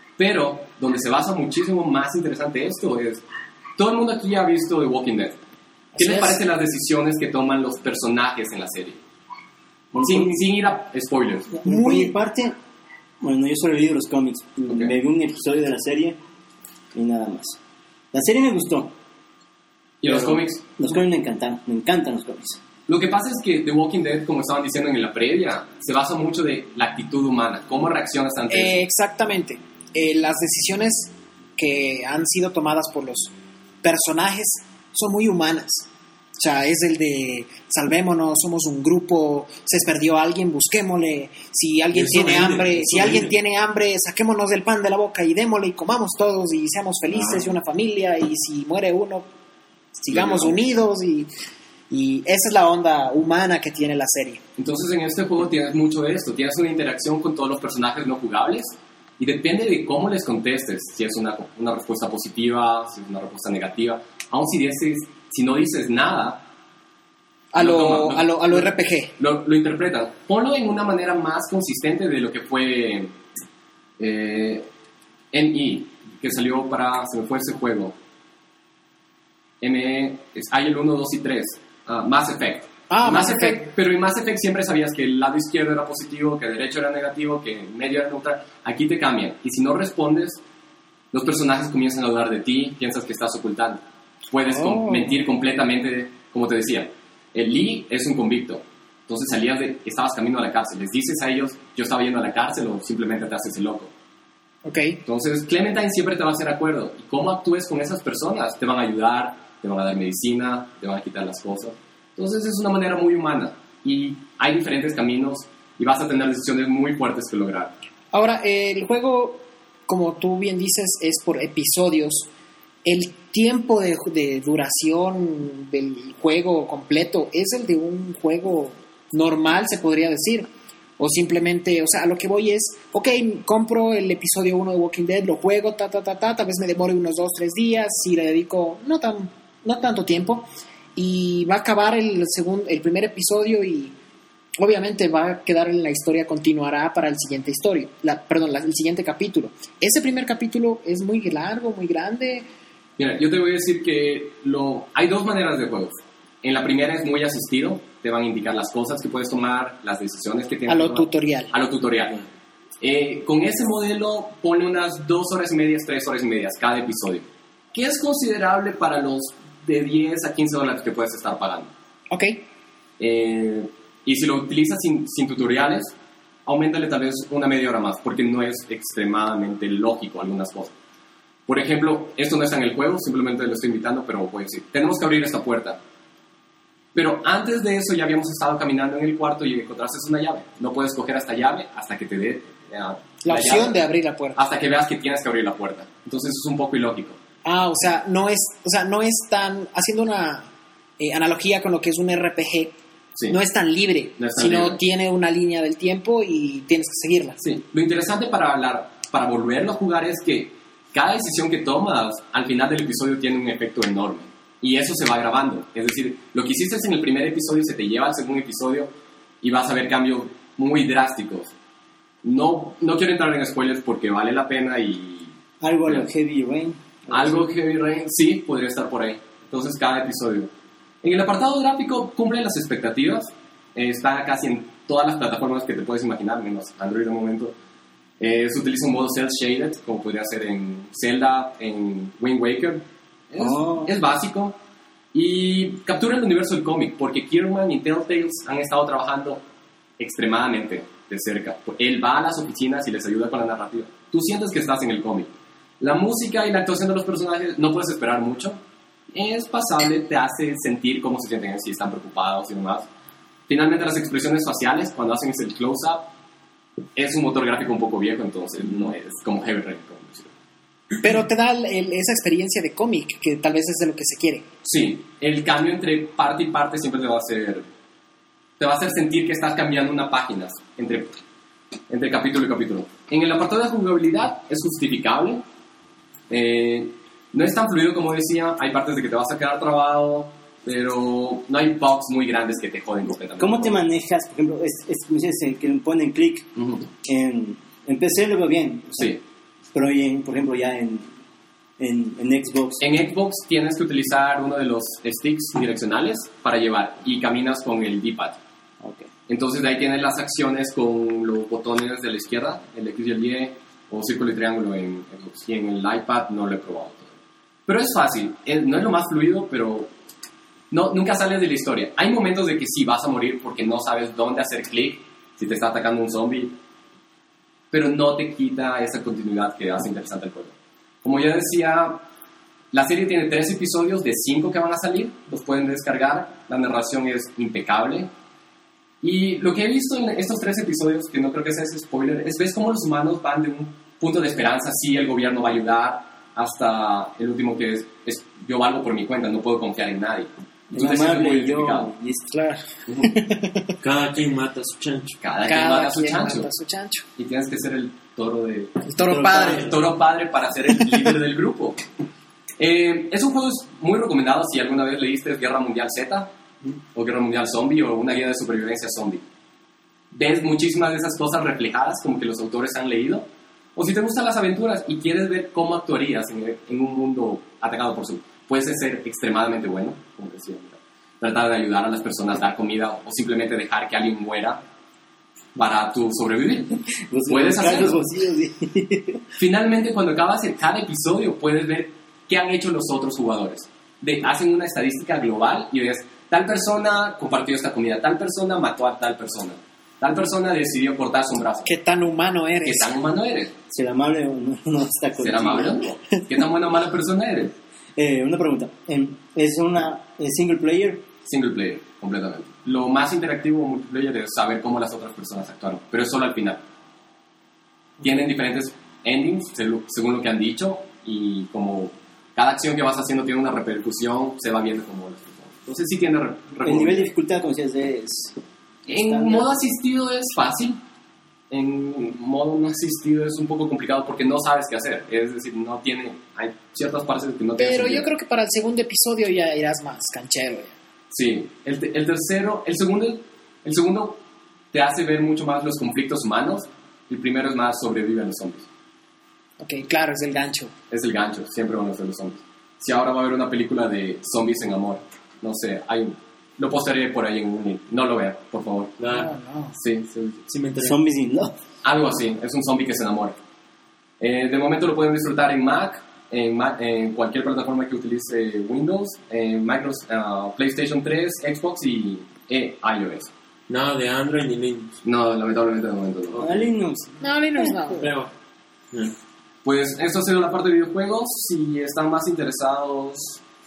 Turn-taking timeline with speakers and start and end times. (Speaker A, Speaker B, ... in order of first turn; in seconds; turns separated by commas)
Speaker A: 0.2-3.2, Speaker A: 3.8-5.4, Speaker B: 5.9-6.4, Speaker A: 6.0-9.0, Speaker C: 9.9-10.5, Speaker A: 10.0-11.5, Speaker C: 11.6-12.5, Speaker B: 11.6-12.1, Speaker C: 13.2-16.2, Speaker C: 16.9-17.6, Speaker C: 18.1-18.9, Speaker A: 20.0-20.6, Speaker C: 20.1-22.6, Speaker A: 22.9-28.8, Speaker B: 28.5-35.9, Speaker B: 36.4-49.3, Speaker D: 41.9-43.4, Speaker B: 50.0-51.3, Speaker A: 50.1-50.6, Speaker B: 51.9-54.4, Speaker A: 54.6-66.4, Speaker B: 67.5-69.1, Speaker A: 67.5-73.1, Speaker A: 74.0-74.7, Speaker A: 75.3-77.9, Speaker A: 79.6-90.4, Speaker B: 82.9-83.7, Speaker A: 91.1-103.9, Speaker B: 94.4-95.2, Speaker B: 104.6-105.0, Speaker A: 105.0-117.7, Speaker B: 118.1-122.3, Speaker B: 122.8-143.9, Speaker B: 144.6-152.5, Speaker A: 153.0-162.2, Speaker B: 160.7-161.5, Speaker A: 162.8-171.7, Speaker B: 172.1-172.4, Speaker A: 173.0-175.9, Speaker A: 176.4-180.7, Speaker A: 181.5-185.8, Speaker A: 186.9-193.8, Speaker B: 193.2-194.4, Speaker A: 194.3-197.2, Speaker B: 197.4-202.8, Speaker B: 203.3-207.4, Speaker A: 204.2-204.8, Speaker A: 207.4-221.5, Speaker A: 222.2-225.3, Speaker C: 225.6-227.4, Speaker A: 227.1-230.5, Speaker A: 231.0-237.5, Speaker A: 238.2-244.6, Speaker C: 243.4-243.9, Speaker A: 245.1-249.4, Speaker A: 250.0-262.9, Speaker A: 263.5-266.1, Speaker A: 266.9-270.3, Speaker B: 271.0-274.5, Speaker A: 274.6-277.6, Speaker A: 278.6-281.1, Speaker A: 281.9-285.4, Speaker A: 286.3-293.8, Speaker C: 293.4-296.5, Speaker A: 296.6-296.9, Speaker C: 297.0-299.2, Speaker C: 299.7-301.1, Speaker C: 301.8-302.8, Speaker A: 302.8-308.4, Speaker C: 308.8-309.1, Speaker A: 309.3-317.1, Speaker A: 317.6-319.9, Speaker A: 320.7-326.6, Speaker A: 327.7-332.1, Speaker A: 332.7-338.1, Speaker A: 339.0-351.9, Speaker C: 350.7-352.3, Speaker B: 352.3-352.6, Speaker D: 353.8-355.2, Speaker A: 355.2-356.5, Speaker B: 355.4-357.0, Speaker A: 357.2-358.8, Speaker B: 358.9-359.7, Speaker C: 359.0-359.8, Speaker A: 359.5-361.8, Speaker A: 362.6-366.3, Speaker A: 366.9-369.2, Speaker A: 370.1-384.6, Speaker A: 385.6-388.0, Speaker C: 387.1-389.2, Speaker A: 389.4-401.7, Speaker B: 401.6-402.9, Speaker A: 402.6-403.5, Speaker C: 403.7-405.8, Speaker A: 405.2-407.5, Speaker C: 407.9-411.0, Speaker A: 411.2-416.6, Speaker A: 418.0-427.1, Speaker C: 426.6-428.4, Speaker A: 428.9-430.8, Speaker C: 428.9-429.5, Speaker A: 431.5-438.1, Speaker B: 437.6-440.7, Speaker A: 441.1-444.2, Speaker A: 444.7-448.7, Speaker B: 449.6-450.7, Speaker A: 450.9-458.9, Speaker D: 459.0-459.3, Speaker B: 459.1-459.7, Speaker A: 459.8-460.4, Speaker D: 460.5-461.0, Speaker C: 460.8-461.5, Speaker A: 461.8-463.3, Speaker A: 464.2-473.3, Speaker D: 473.7-475.0, Speaker A: 475.0-476.7, Speaker C: 476.3-477.2, Speaker B: 477.2-478.1, Speaker D: 477.9-478.3, Speaker A: 479.6-483.4